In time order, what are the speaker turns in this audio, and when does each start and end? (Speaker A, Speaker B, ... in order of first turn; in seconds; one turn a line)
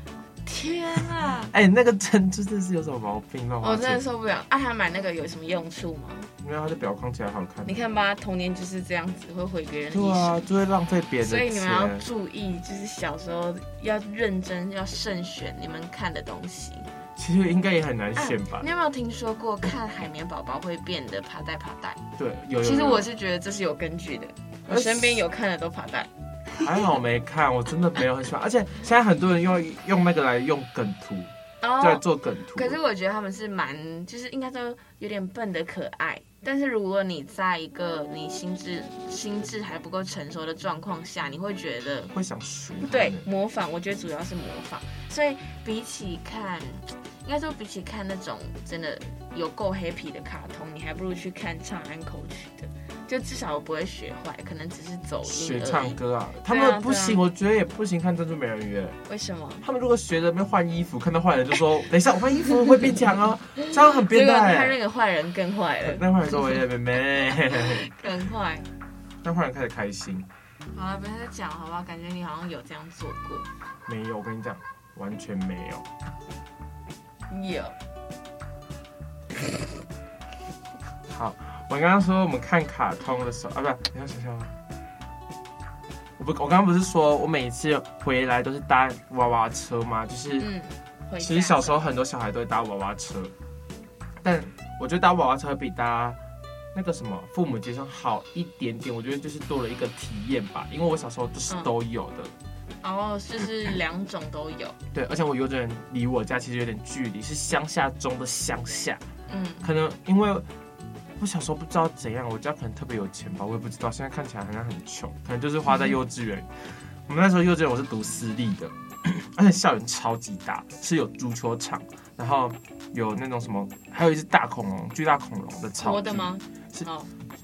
Speaker A: 0.4-1.5
Speaker B: 1.5-4.0
Speaker A: 3.6-6.3
Speaker B: 6.4-7.8
Speaker A: 7.6-10.4
Speaker B: 9.9-12.1
Speaker A: 11.2-16.9
Speaker B: 17.1-18.7
Speaker A: 18.1-22.0
Speaker B: 22.1-23.1
Speaker A: 22.6-26.7
Speaker B: 24.7-25.2
Speaker B: 26.6-32.8
Speaker A: 31.6-32.0
Speaker A: 32.5-42.1
Speaker B: 42.1-43.2
Speaker A: 42.8-57.2
Speaker B: 55.2-59.0
Speaker A: 59.1-59.6
Speaker B: 59.6-64.8
Speaker A: 63.6-66.6
Speaker B: 65.8-67.9
Speaker A: 67.2-68.7
Speaker B: 69.2-70.3
Speaker A: 70.7-73.5
Speaker B: 73.9-75.8
Speaker A: 77.3-77.7
Speaker B: 81.1-84.5
Speaker B: 86.2-90.5
Speaker A: 90.4-91.9
Speaker B: 91.2-93.3
Speaker B: 94.2-96.2
Speaker B: 96.7-102.3
Speaker A: 102.8-104.8
Speaker B: 104.9-109.0
Speaker A: 109.3-109.6
Speaker B: 109.6-110.5
Speaker B: 111.2-126.9
Speaker A: 125.8-127.1